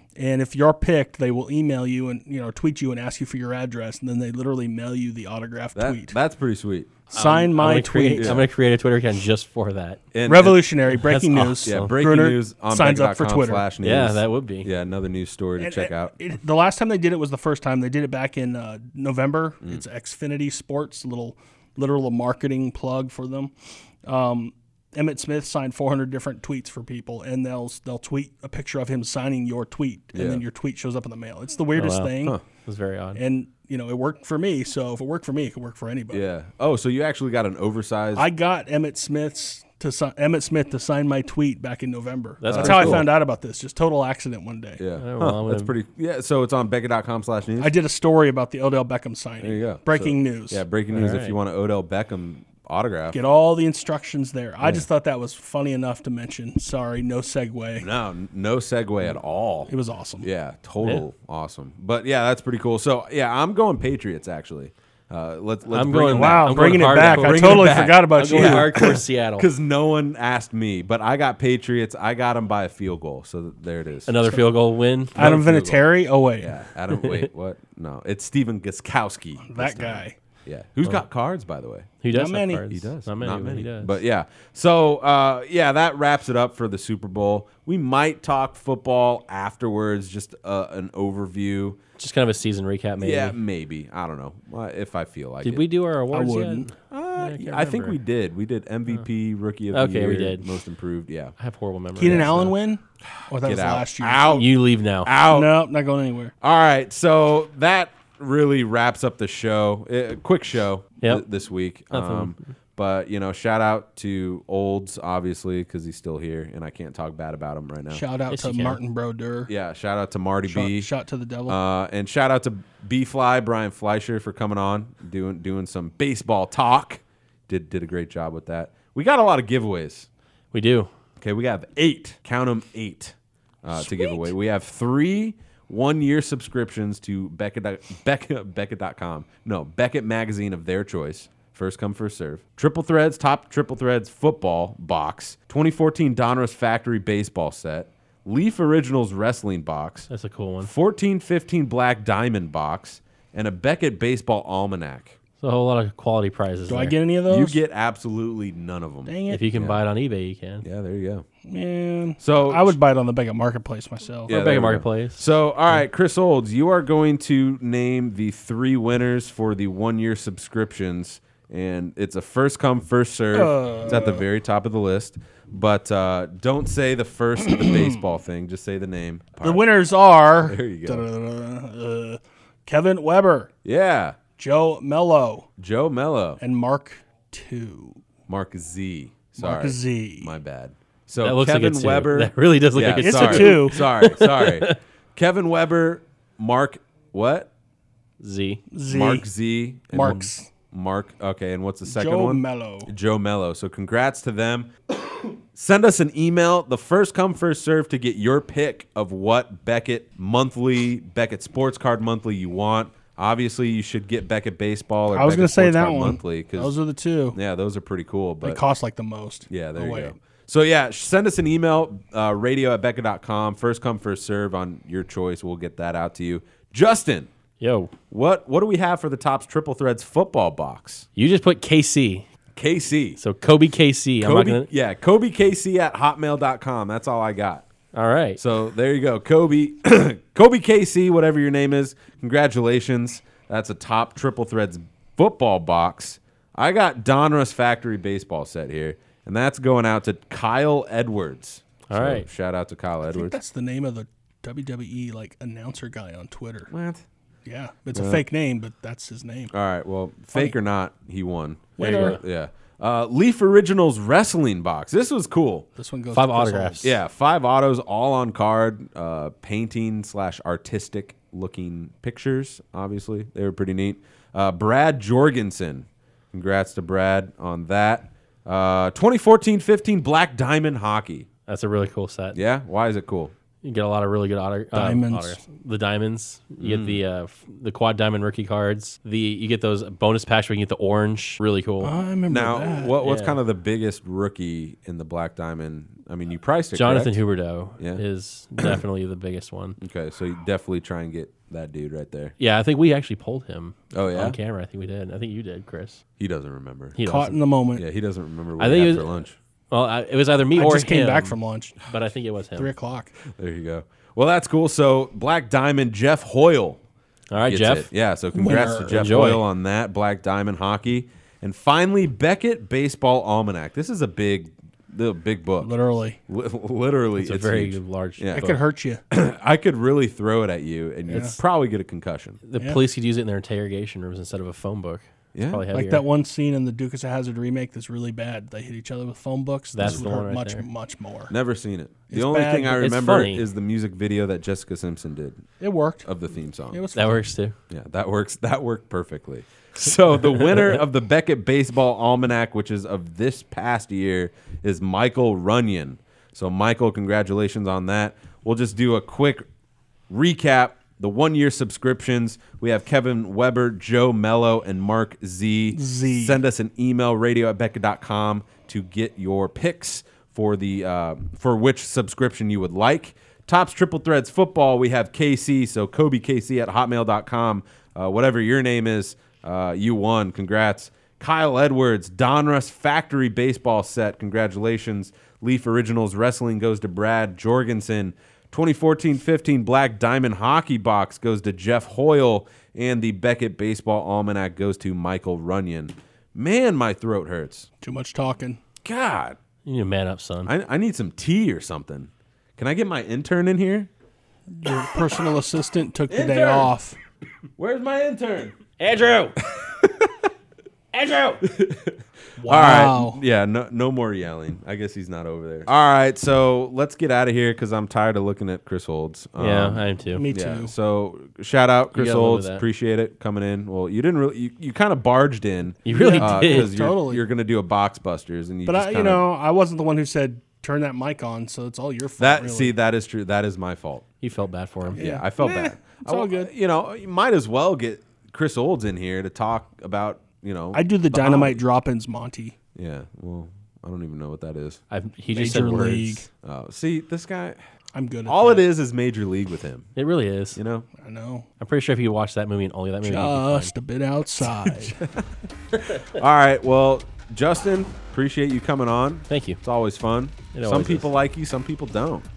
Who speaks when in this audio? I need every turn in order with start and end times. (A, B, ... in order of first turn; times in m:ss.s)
0:00.2-0:06.2 A
0:05.8-0:07.0 B
0:07.1-0:08.4 A
0:07.1-0:10.0 C
0:08.1-0:08.5 B
0:10.1-0:10.7 B
0:10.3-0:13.6 A
0:10.9-0:11.9 C
0:11.6-0:16.1 B
0:13.8-0:14.7 C
0:15.6-0:32.4 A
0:30.1-0:30.4 B
0:31.8-0:33.2 C
0:33.2-0:36.2 A
0:36.1-0:38.3 B
0:38.2-0:44.8 A
0:42.4-0:43.1 C
0:42.5-0:43.1 B
0:44.8-0:47.7 B
0:45.0-0:45.7 C
0:47.6-0:50.6 A
0:49.4-0:53.2 B
0:50.9-0:51.4 C
0:53.1-0:57.9 A
0:57.8-1:14.3 B
0:59.7-1:00.3 A
1:05.7-1:09.5 C
1:06.1-1:09.0 A
1:14.1-1:15.7 C
1:15.2-1:15.8 B
1:15.2-1:16.6 A
1:16.4-1:21.9 B
1:16.9-1:17.3 C
1:19.4-1:20.2 A
1:22.0-1:24.0 C
1:22.1-1:22.6 A
1:22.7-1:31.8 B
1:32.0-1:33.4 C
1:33.0-1:35.6 B
1:35.4-1:38.0 C
1:36.1-1:36.7 A
1:36.9-1:41.4 B
1:39.7-1:40.5 C
1:41.4-1:42.5 C
1:42.0-1:44.5 A
1:43.4-1:45.6 B
1:44.3-1:45.1 C
1:45.3-1:46.3 A
1:46.4-1:58.0 B
1:51.9-1:52.5 C
1:57.9-1:59.5 A
1:58.3-1:58.8 C
1:59.5-2:00.9 B
2:00.5-2:01.6 A
2:01.5-2:10.1 B
2:10.5-2:10.9 C
2:11.2-2:30.1 B
2:30.1-2:30.7 C
2:30.6-2:35.2 B
2:35.4-2:37.0 C
2:36.7-2:37.6 A
2:37.3-2:39.8 B
2:39.1-2:39.4 A
2:39.3-2:40.7 C
2:40.6-2:41.2 B
2:41.5-2:44.4 A
2:42.2-2:42.8 B
2:44.3-2:45.3 C
2:44.3-2:59.6 B
2:53.3-2:54.2 A
2:57.5-2:58.0 A
2:59.4-3:03.5 A
3:00.4-3:01.0 B
3:03.6-3:04.2 B
3:04.4-3:05.5 A
3:05.6-3:06.4 B
3:06.4-3:08.0 A
3:08.3-3:17.5 B
3:09.4-3:10.3 A
3:11.2-3:14.8 C
3:12.9-3:13.8 A
3:18.2-3:18.6 C
3:18.7-3:19.2 A
3:18.9-3:24.7 B
3:19.9-3:20.5 A
3:21.9-3:22.9 A
3:25.5-3:36.8 B
3:35.1-3:37.4 A
3:37.3-3:38.6 B
3:38.4-3:40.2 A
3:39.5-3:47.3 B
3:47.6-3:47.9 C
3:48.1-3:51.1 B
3:51.2-3:52.3 C
3:52.6-3:53.2 B
3:53.2-3:54.7 C
3:54.2-3:57.7 B
3:57.9-3:58.4 C
3:58.4-4:13.4 B
4:11.9-4:12.3 C
4:13.0-4:16.7 A
4:16.7-4:17.0 B
4:17.4-4:19.5 A
4:17.9-4:18.2 B
4:19.5-4:25.7 B
4:21.8-4:22.2 A
4:21.8-4:22.2 C
4:25.8-4:26.9 A
4:26.1-4:26.9 C
4:26.8-4:41.3 B
4:41.5-4:42.4 C
4:42.4-4:43.3 B
4:43.6-4:52.0 C
4:44.7-4:45.4 A
4:46.6-4:47.0 B
4:51.8-4:52.9 A
4:52.3-4:57.2 B
4:53.0-4:53.4 C
4:56.8-4:59.8 C
4:59.8-5:02.3 B
5:02.4-5:06.0 C
5:03.9-5:04.4 B
5:06.2-5:07.0 B
5:07.0-5:07.4 C
5:07.0-5:07.8 A
5:07.8-5:09.4 B
5:08.6-5:12.7 C
5:10.6-5:11.8 A
5:12.6-5:13.2 A
5:13.4-5:16.8 B
5:17.3-5:17.9 C
5:17.4-5:25.7 B
5:18.3-5:19.2 A
5:18.9-5:19.4 C
5:25.6-5:26.2 A
5:26.3-5:28.5 B
5:27.2-5:28.6 C
5:28.4-5:29.0 A
5:29.1-5:32.4 B
5:31.1-5:31.4 A
5:32.5-5:36.1 C
5:35.4-5:35.7 B
5:35.7-5:41.3 A
5:39.7-5:40.7 C
5:41.3-5:45.4 B
5:42.1-5:42.8 A
5:42.8-5:43.4 C
5:45.6-5:46.1 A
5:46.0-5:46.8 B
5:46.7-5:47.2 A
5:46.9-5:47.6 C
5:47.7-5:59.4 B
6:00.1-6:37.7 B
6:05.7-6:06.4 A
6:37.8-6:38.6 A
6:38.8-6:39.4 B
6:39.6-6:40.5 C
6:40.5-6:43.9 B
6:44.5-6:47.0 A
6:46.1-6:46.7 B
6:47.6-6:48.6 B
6:48.8-6:49.4 C
6:49.5-6:50.3 B
6:50.9-6:51.4 C
6:51.4-7:09.2 B
6:52.4-6:53.2 A
6:59.4-7:00.2 C
7:00.2-7:00.7 A
7:01.9-7:02.6 C
7:05.8-7:06.7 C
7:05.9-7:07.2 A
7:08.7-7:12.7 A
7:12.2-7:14.1 B
7:14.2-7:15.0 C
7:14.8-7:21.6 B
7:15.0-7:16.5 A
7:20.7-7:22.6 A
7:22.8-7:24.8 B
7:24.9-7:26.3 C
7:25.3-7:26.2 A
7:26.4-7:27.6 B
7:27.9-7:28.6 A
7:28.3-7:29.9 B
7:30.0-7:30.6 C
7:30.6-7:30.9 B
7:31.0-7:31.5 A
7:31.6-7:33.7 C
7:33.0-7:35.0 A
7:35.0-7:35.2 B
7:35.8-7:42.3 B
7:39.3-7:39.6 C
7:40.5-7:41.1 C